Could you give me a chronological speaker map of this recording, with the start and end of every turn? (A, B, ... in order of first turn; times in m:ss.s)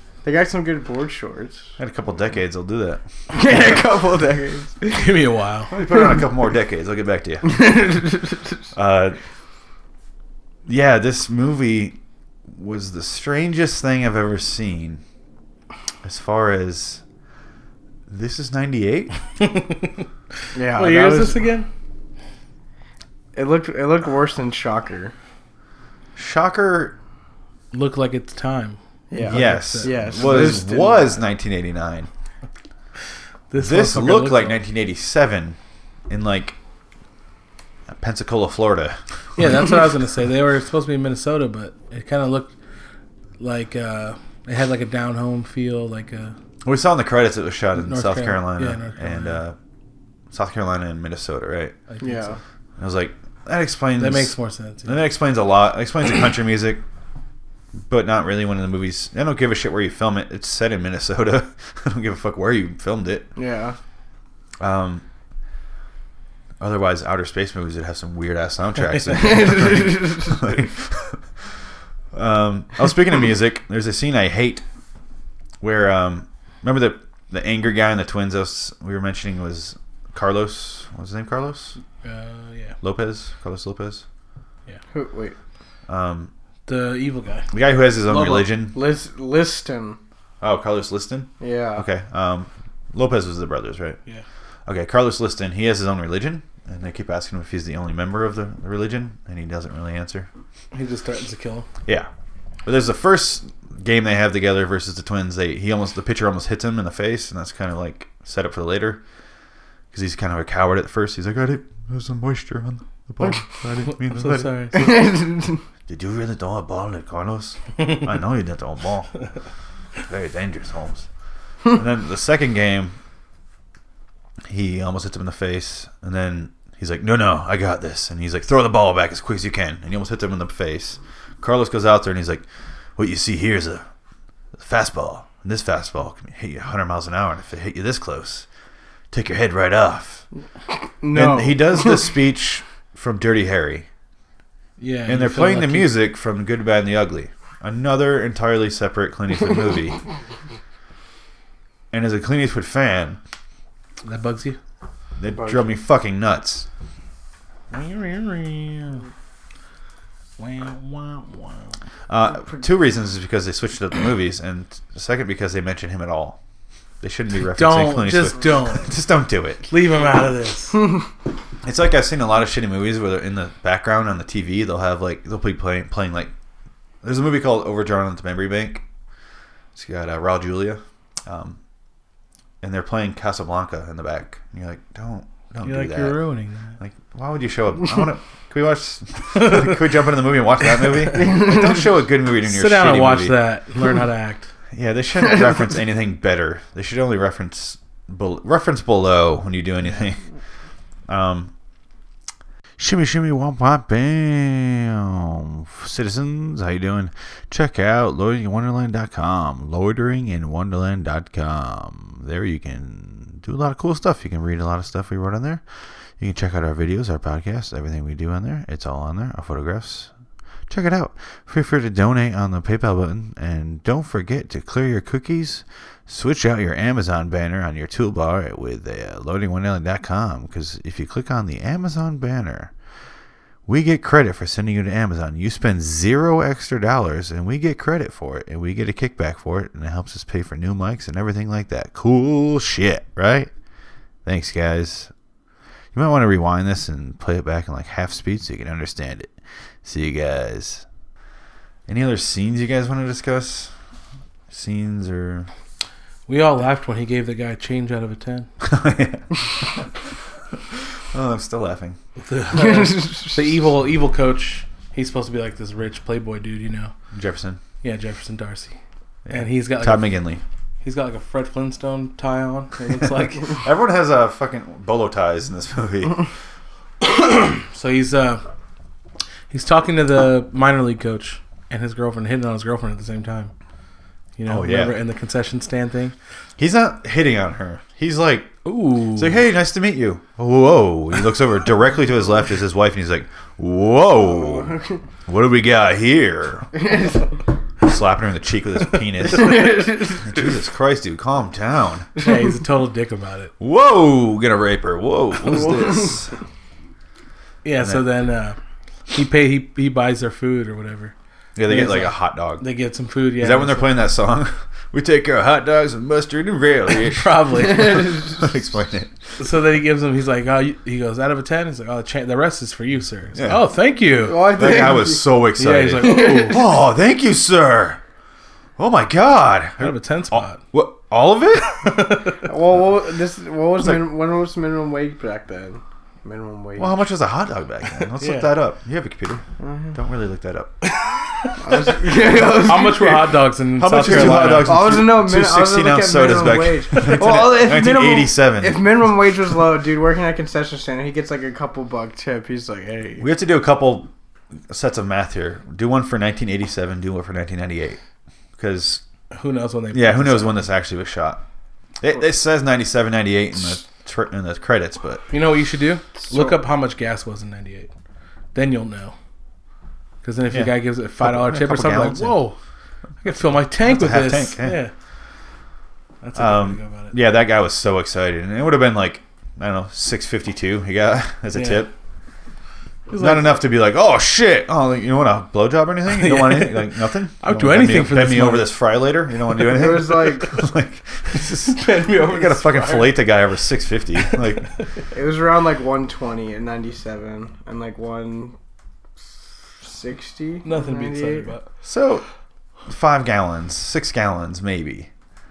0:00.2-0:01.7 A
0:01.8-0:03.7 B
0:03.3-0:05.2 A
0:04.9-0:05.7 C
0:05.7-0:07.8 B
0:07.5-0:08.4 A
0:08.8-0:09.2 B
0:10.7-0:12.0 B
0:12.5-0:15.0 B
0:16.0-0:17.0 B
0:18.1-0:19.2 B
0:19.4-0:20.0 C
0:20.6-0:21.5 A
0:20.7-0:21.7 C
0:23.3-0:25.1 A
0:26.2-0:27.0 B
0:27.7-0:30.6 C
0:29.1-0:31.2 A
0:29.3-0:32.1 B
0:33.5-0:34.6 C
0:33.6-0:35.6 B
0:36.1-0:36.6 B
0:37.9-0:39.0 B
0:39.4-0:42.5 C
0:43.4-0:46.4 C
0:46.6-0:49.6 B
0:47.8-0:49.4 C
0:50.3-0:51.8 B
0:51.9-0:52.4 C
0:52.0-0:52.4 A
0:52.8-0:54.3 B
0:54.0-0:55.0 C
0:54.9-0:56.8 B
0:57.9-1:03.3 B
1:03.4-1:03.8 A
1:04.6-1:05.0 B
1:06.6-1:11.2 B
1:09.1-1:10.4 A
1:12.1-1:14.6 B
1:15.6-1:21.8 B
1:22.0-1:22.8 C
1:22.8-1:24.0 B
1:24.9-1:25.4 A
1:25.9-1:26.3 B
1:26.7-1:27.5 C
1:27.5-1:28.8 B
1:28.1-1:28.4 C
1:28.7-1:30.0 A
1:30.4-1:34.0 B
1:31.4-1:31.8 A
1:34.7-1:40.3 B
1:40.7-1:41.7 C
1:42.6-1:49.0 B
1:49.9-1:54.9 B
1:53.9-1:55.0 C
1:54.7-1:55.6 A
1:55.9-1:59.1 B
2:00.1-2:01.1 B
2:01.7-2:03.0 B
2:04.5-2:12.4 B
2:13.0-2:13.8 B
2:14.6-2:18.5 B
2:19.1-2:20.2 B
2:21.0-2:22.2 A
2:21.1-2:23.9 B
2:24.8-2:26.0 C
2:25.1-2:30.0 B
2:31.9-2:33.2 B
2:34.0-2:34.6 C
2:35.2-2:36.7 B
2:35.3-2:35.7 A
2:37.7-2:39.0 C
2:40.4-2:41.7 C
2:42.1-2:46.4 B
2:47.0-2:49.7 B
2:47.5-2:48.9 C
2:49.7-2:51.0 C
2:51.6-2:56.3 B
2:57.0-2:58.8 B
2:59.8-3:01.6 B
3:02.6-3:06.2 B
3:05.6-3:06.8 C
3:06.8-3:13.4 B
3:11.2-3:11.5 A
3:12.4-3:14.5 C
3:14.7-3:20.2 B
3:21.1-3:21.5 B
3:22.8-3:35.6 B
3:36.2-3:40.1 B
3:40.7-3:52.7 B
3:53.7-4:03.5 B
4:04.2-4:05.1 B
4:05.9-4:09.3 B
4:09.8-4:10.8 B
4:11.9-4:13.7 B
4:14.5-4:15.5 B
4:16.3-4:18.5 C
4:18.6-4:19.8 B
4:21.1-4:22.0 B
4:22.2-4:26.9 C
4:22.5-4:23.4 A
4:27.1-4:27.6 B
4:27.8-4:28.8 C
4:29.3-4:30.4 B
4:29.3-4:30.2 C
4:30.8-4:33.6 C
4:33.5-4:36.3 B
4:37.0-4:38.4 C
4:39.5-4:43.5 C
4:44.4-4:46.2 C
4:44.5-4:45.0 B
4:46.6-4:48.6 B
4:48.6-4:49.4 C
4:49.2-4:54.7 B
4:54.2-4:55.0 A
4:55.3-4:56.8 B
4:56.8-4:57.2 A
4:57.8-5:02.1 B
4:59.5-5:00.1 A
5:02.2-5:03.5 C
5:03.6-5:06.4 B
5:07.6-5:08.6 C
5:09.1-5:11.1 C
5:11.6-5:12.6 B
5:11.7-5:13.9 C
5:13.4-5:19.1 B
5:17.1-5:18.4 C
5:19.4-5:24.6 C
5:23.4-5:23.6 B
5:24.2-5:25.2 A
5:24.4-5:28.0 B
5:25.6-5:26.6 C
5:26.0-5:26.6 A
5:28.8-5:32.0 B
5:29.8-5:30.6 C
5:31.6-5:32.5 C
5:32.4-5:37.0 A
5:36.8-5:40.8 B
5:38.0-5:38.5 C
5:39.6-5:40.0 A
5:40.8-5:41.9 C
5:41.6-5:43.4 A
5:42.5-5:44.8 C
5:43.8-5:49.1 B
5:44.1-5:53.3 A
5:53.2-5:54.1 B
5:54.7-5:58.0 B
5:58.6-5:59.0 B
5:59.3-6:00.6 C
5:59.9-6:01.4 B
6:02.0-6:05.3 B
6:05.3-6:07.9 C
6:08.5-6:09.2 C
6:10.2-6:12.6 C
6:10.5-6:12.4 B
6:13.2-6:14.9 C
6:13.8-6:14.8 B
6:16.2-6:17.2 C
6:16.4-6:21.9 B
6:21.6-6:21.9 C
6:23.1-6:23.6 C
6:23.2-6:34.7 B
6:26.1-6:28.8 C
6:29.6-6:30.5 A
6:31.4-6:33.2 C
6:35.1-6:38.6 A
6:39.8-6:41.5 A
6:40.6-6:41.7 C
6:41.8-6:42.2 B
6:42.9-6:45.1 B